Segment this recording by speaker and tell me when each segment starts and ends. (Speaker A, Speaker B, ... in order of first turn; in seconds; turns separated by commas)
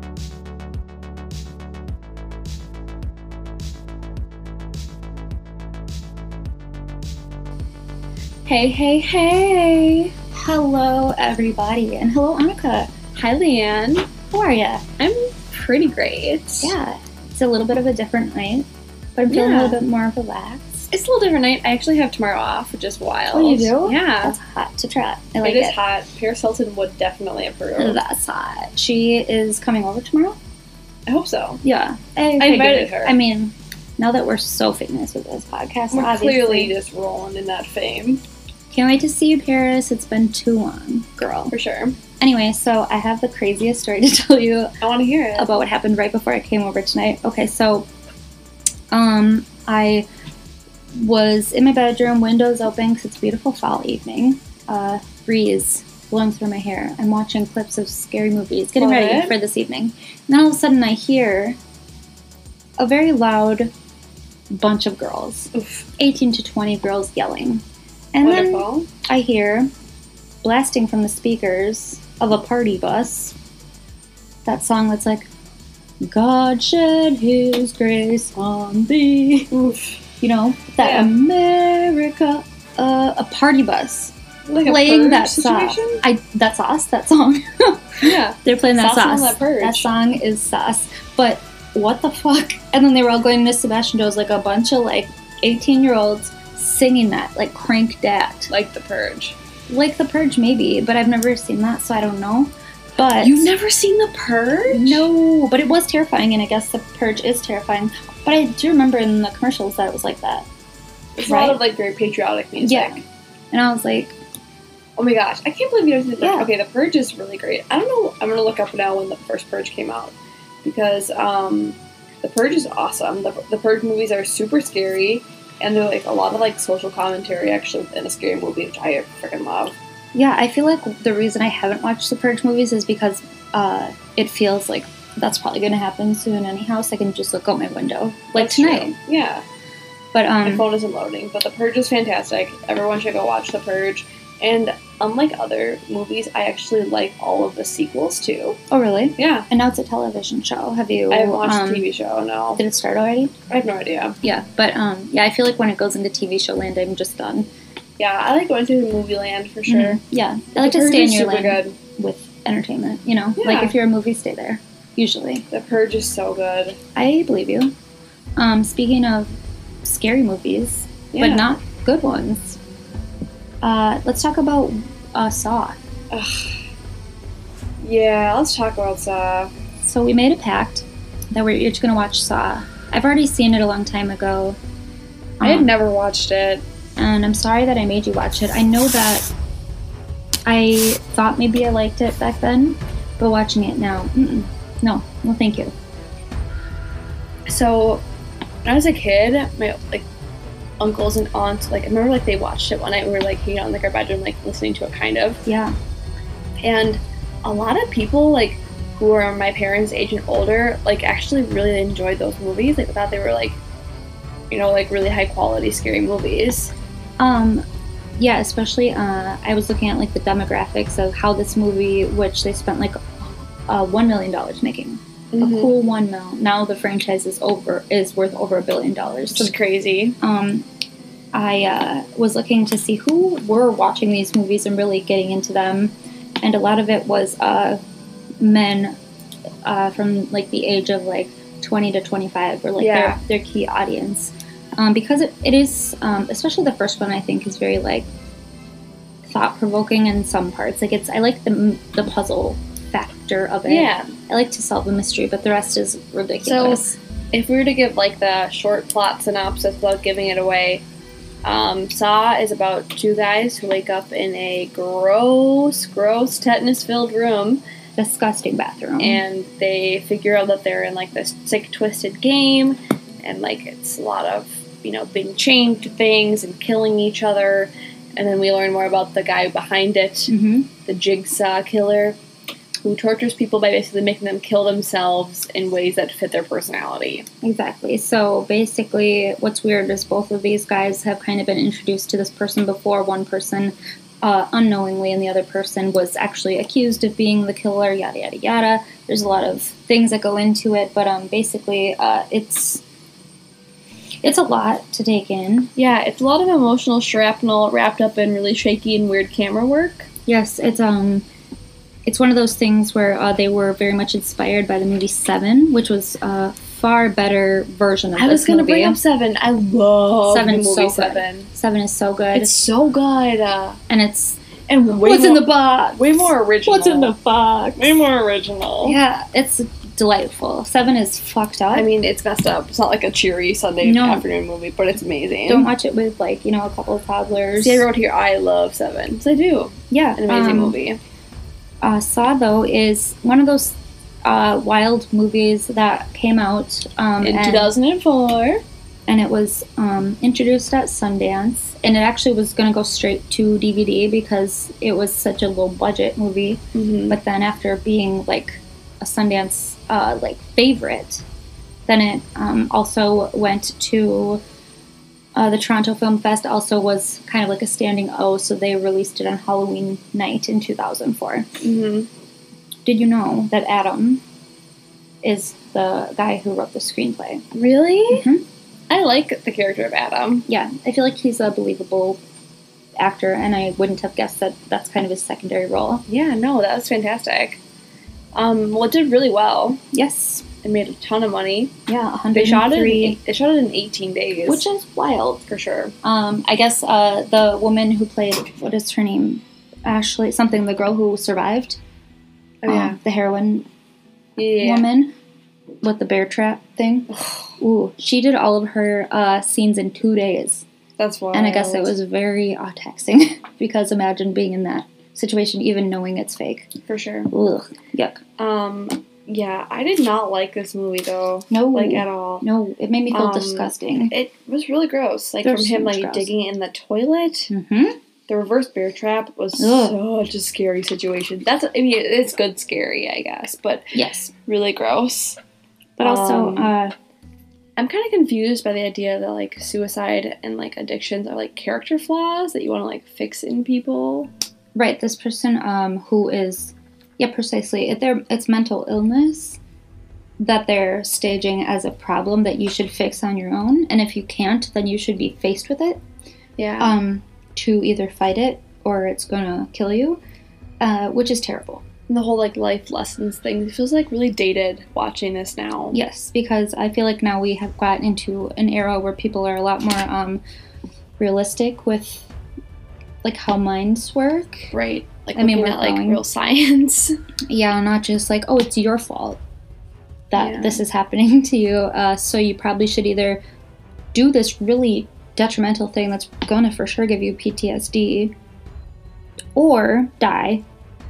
Speaker A: 8.5-10.1, Speaker B: 10.3-12.9, Speaker A: 13.1-14.1, Speaker B: 14.3-14.8, Speaker A: 15.0-16.8, Speaker B: 16.6-20.9, Speaker A: 19.3-19.8, Speaker A: 20.9-24.4, Speaker B: 23.3-25.8, Speaker A: 25.4-28.0, Speaker B: 27.8-30.4, Speaker A: 31.1-31.6, Speaker B: 31.6-36.7, Speaker A: 32.4-33.1, Speaker A: 35.9-38.2, Speaker B: 38.7-41.5, Speaker A: 41.5-42.0, Speaker B: 42.2-44.7, Speaker A: 44.8-45.5, Speaker B: 45.4-47.9, Speaker B: 48.9-50.1, Speaker B: 50.9-61.6, Speaker A: 58.8-59.4, Speaker B: 62.8-63.7, Speaker B: 64.5-67.6, Speaker A: 65.5-65.9, Speaker B: 68.1-69.7, Speaker A: 68.2-68.9, Speaker B: 70.4-73.3, Speaker B: 74.5-75.3, Speaker B: 76.0-79.5, Speaker A: 79.5-80.0, Speaker B: 80.2-84.1, Speaker A: 80.8-81.1, Speaker A: 84.5-86.0, Speaker B: 84.6-98.5, Speaker A: 88.0-89.9, Speaker A: 98.5-99.4, Speaker B: 99.7-103.5, Speaker A: 103.2-105.1, Speaker B: 104.7-110.5, Speaker A: 111.2-113.0, Speaker B: 111.2-111.6, Speaker B: 112.6-114.2, Speaker A: 115.0-129.8, Speaker B: 116.2-116.5, Speaker B: 130.1-139.0, Speaker A: 138.3-139.4, Speaker B: 140.1-140.7, Speaker A: 140.4-148.6, Speaker B: 148.7-151.9, Speaker A: 149.2-149.5, Speaker A: 151.1-152.6, Speaker B: 152.6-153.3, Speaker A: 153.5-154.2, Speaker B: 154.2-157.5, Speaker A: 158.0-160.0, Speaker B: 159.7-165.4, Speaker A: 160.6-161.8, Speaker A: 163.4-163.8, Speaker A: 165.5-166.8, Speaker B: 167.0-167.7, Speaker B: 168.4-169.3, Speaker B: 169.8-172.6, Speaker A: 171.1-171.5, Speaker B: 173.6-175.8, Speaker A: 176.1-176.7, Speaker A: 177.8-179.5, Speaker B: 179.8-184.6, Speaker B: 185.4-185.7, Speaker A: 185.4-186.6, Speaker B: 187.0-189.3, Speaker B: 190.5-195.7, Speaker A: 197.5-198.0, Speaker A: 198.7-200.1, Speaker A: 200.8-205.4, Speaker B: 205.5-205.7, Speaker A: 206.6-213.6, Speaker A: 214.5-216.7, Speaker B: 217.2-217.6, Speaker B: 218.2-229.5, Speaker A: 225.3-225.7, Speaker A: 229.3-230.2, Speaker B: 230.2-230.7, Speaker B: 231.3-237.8, Speaker B: 238.4-239.0, Speaker B: 239.6-248.1, Speaker A: 242.8-243.2, Speaker B: 249.3-257.0, Speaker A: 253.7-254.1, Speaker A: 256.4-260.8, Speaker A: 261.4-267.6, Speaker B: 268.0-269.2, Speaker A: 269.0-280.3, Speaker B: 280.3-280.7, Speaker A: 280.9-282.2, Speaker A: 282.8-287.3, Speaker B: 287.4-302.8, Speaker B: 304.2-305.7, Speaker A: 305.8-310.1, Speaker B: 310.3-311.2, Speaker B: 312.1-319.0, Speaker A: 318.1-321.5, Speaker B: 320.2-322.6, Speaker A: 322.3-323.8, Speaker B: 323.9-324.4, Speaker A: 324.7-327.1, Speaker B: 324.9-328.0, Speaker A: 327.8-329.0, Speaker B: 328.8-331.9, Speaker A: 331.7-335.7, Speaker B: 333.8-334.3, Speaker B: 335.5-337.9, Speaker A: 337.6-341.0, Speaker B: 339.9-340.8, Speaker B: 341.8-347.7, Speaker A: 347.2-348.6, Speaker B: 349.1-361.2, Speaker A: 356.7-357.2, Speaker B: 361.9-364.4, Speaker B: 365.4-371.5, Speaker A: 371.6-372.1, Speaker B: 372.9-374.2, Speaker B: 375.2-377.4, Speaker A: 377.5-378.3, Speaker B: 378.1-378.4, Speaker A: 378.9-380.5, Speaker B: 380.5-382.2, Speaker B: 383.0-386.0, Speaker A: 386.1-387.6, Speaker A: 388.3-389.8, Speaker B: 389.9-390.5, Speaker A: 390.6-391.7, Speaker B: 391.9-393.2, Speaker A: 392.3-394.7, Speaker B: 394.5-395.4, Speaker A: 395.4-395.9, Speaker B: 396.0-401.8, Speaker A: 402.6-403.0, Speaker B: 402.7-403.7, Speaker A: 404.4-404.9, Speaker B: 404.6-405.1, Speaker B: 405.8-407.1, Speaker A: 407.1-407.6, Speaker B: 407.6-410.7, Speaker A: 411.0-411.9, Speaker B: 411.3-416.7, Speaker A: 416.9-417.3, Speaker B: 417.3-418.2, Speaker A: 418.4-422.5, Speaker B: 421.5-424.1, Speaker A: 423.1-427.5, Speaker B: 425.4-426.3, Speaker B: 427.5-428.0, Speaker A: 428.3-433.9, Speaker B: 429.6-430.0, Speaker B: 433.9-434.3, Speaker A: 434.5-435.4, Speaker B: 436.0-436.9, Speaker A: 436.0-436.7, Speaker A: 437.8-444.3, Speaker B: 444.8-449.6, Speaker B: 450.4-456.0, Speaker A: 456.6-456.9, Speaker B: 456.8-460.2, Speaker B: 460.8-461.8, Speaker A: 462.1-466.0, Speaker B: 465.9-470.4, Speaker B: 471.2-472.3, Speaker B: 473.2-474.7, Speaker A: 474.7-477.2, Speaker B: 475.4-476.2, Speaker B: 477.5-479.4, Speaker B: 480.3-483.4, Speaker A: 480.4-480.8, Speaker B: 484.1-488.3, Speaker B: 489.6-490.6